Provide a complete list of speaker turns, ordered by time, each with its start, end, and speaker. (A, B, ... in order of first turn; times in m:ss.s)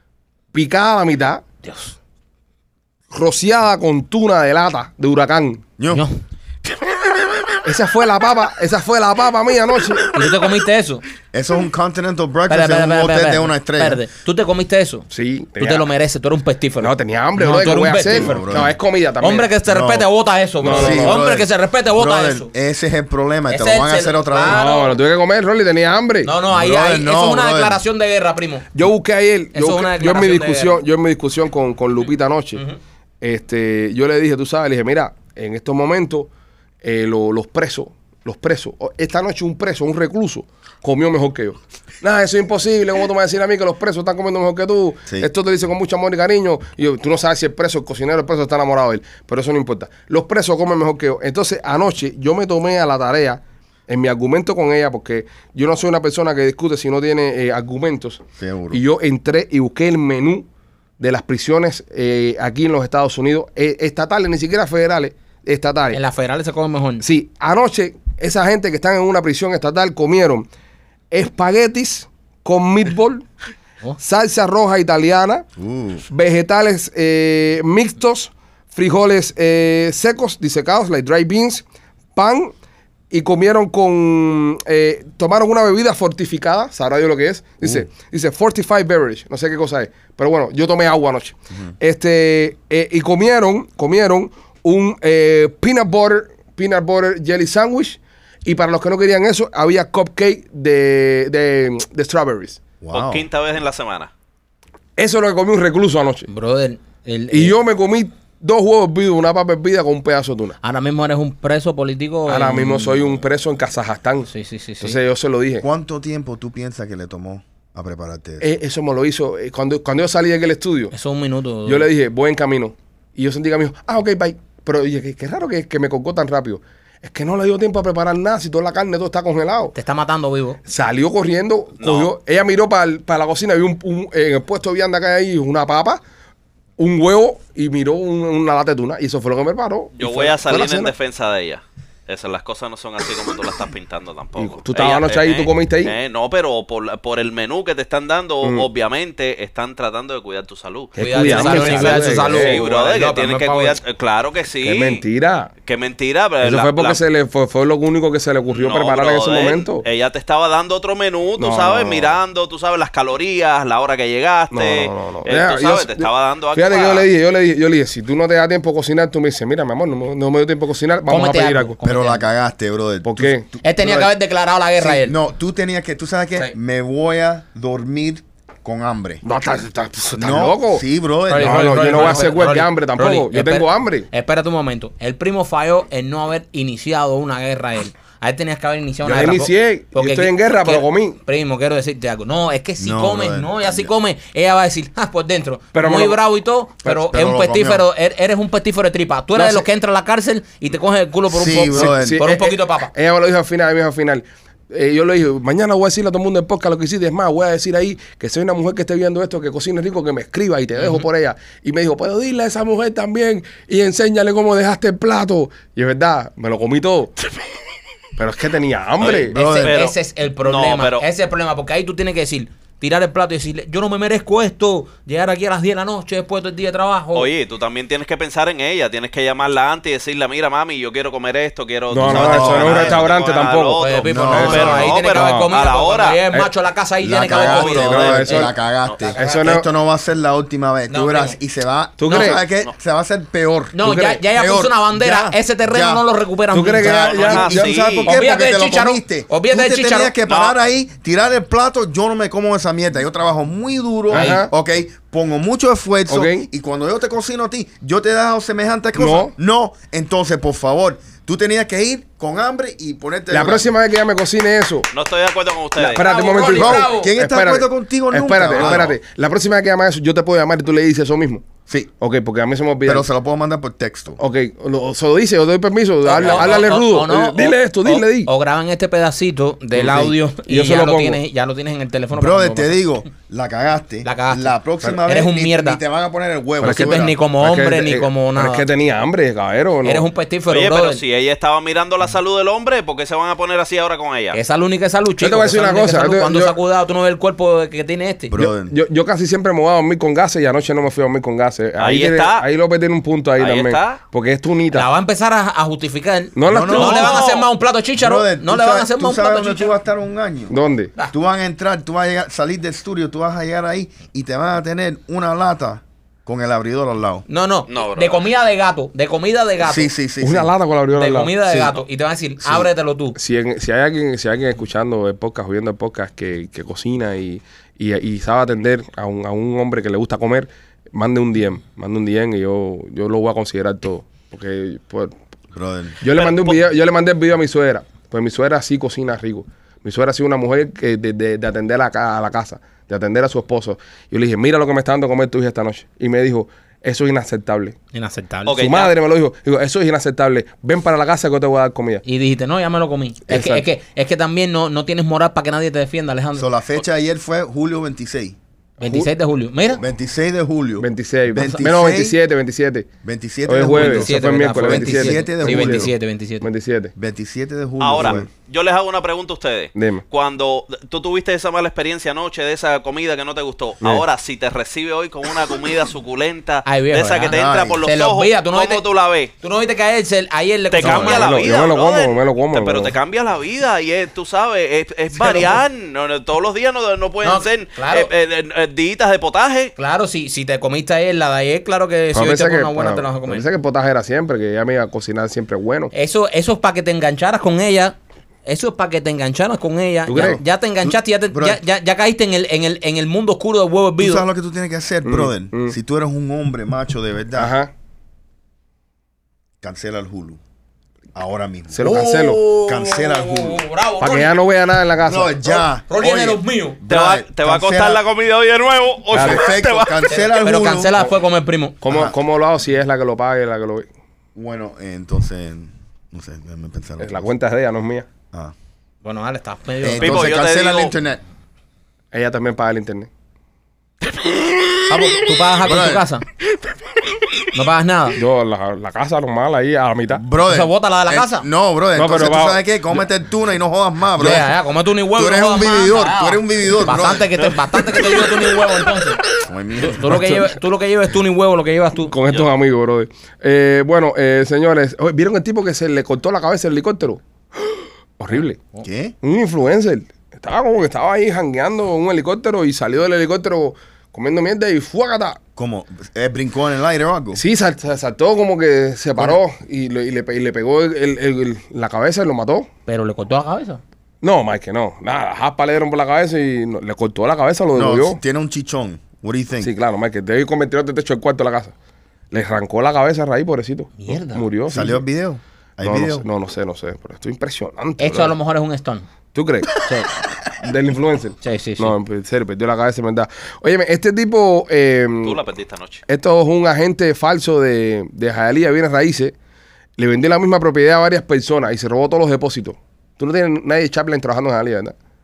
0:00.5-0:01.4 A
0:01.6-0:01.9 B
0:03.1-0:05.6 A
0:05.8-0:06.0 C
0:05.9-0:06.2 B
0:07.6-0:10.1 A
0:10.1-0:11.0 B
0:11.3-0:14.0 C
0:12.5-0:18.5 B
0:15.1-0:15.9 A
0:16.8-0:19.5 A
0:18.1-0:18.8 C
0:19.2-0:22.5 B
0:19.7-0:20.1 C
0:20.6-0:21.2 A
0:20.6-0:24.6 C
0:23.5-0:25.0 B
0:24.4-0:26.3 A
0:26.2-0:28.7 B
0:26.5-0:27.8 C
0:28.7-0:32.6 A
0:29.5-0:30.8 B
0:33.2-0:36.3 A
0:36.8-1:00.5 A
0:58.4-0:58.8 C
1:01.0-1:06.0 A
1:05.9-1:07.0 B
1:07.0-1:10.5 A
1:11.1-1:13.2 A
1:14.0-1:15.4 A
1:15.6-1:16.0 C
1:16.1-1:21.6 A
1:22.2-1:22.5 A
1:23.1-1:42.6 A
1:27.6-1:27.9 C
1:31.5-1:31.7 C
1:42.8-1:43.2 C
1:42.9-1:44.1 D
1:45.0-1:46.3 A
1:46.3-1:47.5 B
1:47.3-1:50.6 A
1:50.6-1:53.2 B
1:52.3-1:54.3 A
1:54.3-1:55.0 B
1:54.8-1:55.6 A
1:55.6-1:58.5 C
1:58.4-2:00.9 A
2:00.9-2:01.9 B
2:01.6-2:09.7 A
2:09.7-2:10.6 B
2:10.7-2:16.0 A
2:11.8-2:12.1 D
2:16.8-2:20.9 A
2:20.0-2:35.0 D
2:24.4-2:25.9 A
2:31.0-2:32.6 A
2:31.0-2:33.8 B
2:31.8-2:32.3 C
2:34.6-2:35.5 A
2:35.6-2:37.0 D
2:36.4-2:39.8 A
2:38.5-2:47.1 D
2:41.4-2:42.1 A
2:44.5-2:51.7 A
2:51.1-2:52.2 B
2:51.8-2:54.1 C
2:53.0-2:53.4 A
2:53.6-2:55.2 B
2:54.8-2:59.2 C
2:59.2-3:00.8 A
3:00.1-3:02.4 C
3:01.3-3:22.9 B
3:01.4-3:04.1 A
3:09.0-3:11.2 A
3:12.8-3:13.9 C
3:15.7-3:16.2 A
3:17.1-3:17.8 C
3:19.3-3:19.7 A
3:21.3-3:22.2 C
3:21.7-3:37.1 A
3:30.7-3:31.0 B
3:38.2-3:39.4 A
3:39.0-3:41.0 D
3:39.3-3:47.3 B
3:39.3-3:39.7 C
3:47.1-3:56.2 D
3:51.9-3:55.5 A
3:52.0-3:53.0 B
3:52.1-3:52.5 C
3:53.8-3:58.5 B
3:54.1-3:54.9 C
3:57.0-4:06.0 C
3:57.3-3:58.2 D
3:57.3-3:58.5 A
3:59.0-3:59.5 B
3:59.1-3:59.6 A
4:00.9-4:01.4 B
4:02.0-4:02.4 A
4:02.1-4:02.4 B
4:03.7-4:07.4 B
4:03.8-4:04.2 A
4:06.5-4:08.1 A
4:06.7-4:23.7 C
4:07.0-4:08.1 D
4:08.0-4:10.1 B
4:10.2-4:10.6 D
4:14.1-4:14.4 B
4:14.1-4:14.5 A
4:16.1-4:16.4 A
4:19.0-4:19.3 A
4:23.3-4:24.9 A
4:24.9-4:26.1 D
4:25.8-4:27.1 B
4:25.8-4:31.4 A
4:26.4-4:29.0 C
4:32.0-4:33.1 A
4:32.8-4:34.2 C
4:34.2-4:38.3 A
4:36.0-4:42.8 B
4:36.2-4:36.6 C
4:39.7-4:41.2 A
4:42.1-4:47.2 C
4:44.0-4:45.8 B
4:46.6-4:48.6 B
4:46.6-4:50.1 A
4:49.8-4:51.0 B
4:50.5-4:54.4 D
4:54.3-4:58.3 B
4:55.2-4:56.5 A
4:58.3-4:58.7 C
4:58.4-5:04.9 A
5:01.8-5:02.4 D
5:03.4-5:04.0 D
5:04.7-5:09.7 B
5:06.3-5:07.2 A
5:06.5-5:07.2 C
5:08.0-5:10.6 C
5:10.5-5:10.9 A
5:11.1-5:17.2 C
5:17.3-5:19.9 B
5:17.7-5:18.2 D
5:19.6-5:20.5 C
5:20.2-5:21.3 A
5:20.9-5:23.2 B
5:21.5-5:21.8 C
5:23.1-5:35.2 A
5:35.5-5:36.0 C
5:36.0-5:47.8 A
5:36.1-5:36.6 D
5:47.9-5:48.7 B
5:48.4-5:48.9 D
5:48.6-5:52.0 A
5:52.0-5:56.5 B
5:53.3-5:53.6 C
5:56.4-5:58.4 C
5:58.8-5:59.1 A
5:58.8-5:59.8 B
5:59.8-6:02.2 C
6:00.8-6:02.9 A
6:03.0-6:05.9 C
6:03.5-6:06.9 A
6:03.6-6:06.4 B
6:07.0-6:08.3 C
6:07.8-6:19.3 D
6:08.0-6:08.2 A
6:09.8-6:10.0 A
6:16.6-6:18.8 B
6:17.3-6:17.8 C
6:19.4-6:21.4 B
6:20.7-6:29.7 D
6:20.8-6:22.9 A
6:25.1-6:25.6 B
6:27.2-6:28.1 B
6:29.8-6:33.4 B
6:32.1-6:35.9 A
6:35.9-6:37.9 B
6:38.4-6:44.2 B
6:40.1-6:40.4 A
6:40.1-6:41.6 C
6:44.0-6:47.5 C
6:45.0-6:45.8 A
6:47.4-6:47.7 A
6:49.6-6:50.4 C
6:51.1-6:53.6 C
6:51.7-6:52.4 A
6:51.9-6:54.3 B
6:54.0-6:55.4 A
6:55.0-6:58.0 C
6:55.9-6:56.8 B
6:56.9-7:00.3 D
6:59.1-6:59.4 A
6:59.1-7:01.0 C
7:00.1-7:01.8 B
7:01.8-7:03.9 A
7:01.8-7:02.1 C
7:04.3-7:07.3 C
7:07.0-7:08.1 A
7:09.0-7:10.4 B
7:09.8-7:11.2 C
7:10.0-7:10.9 D
7:12.1-7:13.1 A
7:14.9-7:16.2 B
7:15.6-7:16.0 C
7:17.5-7:18.2 B
7:18.2-7:20.2 A
7:20.1-7:24.5 C
7:20.4-7:21.5 B
7:22.0-7:22.6 A
7:24.2-7:29.2 B
7:25.1-7:27.3 C
7:29.4-7:30.2 C
7:29.8-7:32.1 B
7:32.1-7:38.6 A
7:38.8-7:39.1 C
7:39.2-7:45.4 A
7:45.6-7:47.4 C
7:47.4-7:52.7 A
7:52.9-7:53.8 B
7:54.2-7:58.2 A
7:57.7-7:59.7 C
7:59.6-8:01.7 A
8:02.3-8:05.0 A
8:04.0-8:04.4 B
8:04.7-8:06.3 C
8:05.8-8:08.3 A
8:08.0-8:09.1 B
8:09.3-8:09.8 A
8:09.8-8:10.1 B
8:10.6-8:15.4 A
8:11.4-8:11.9 B
8:15.2-8:16.0 D
8:16.1-8:19.3 A
8:20.0-8:24.9 A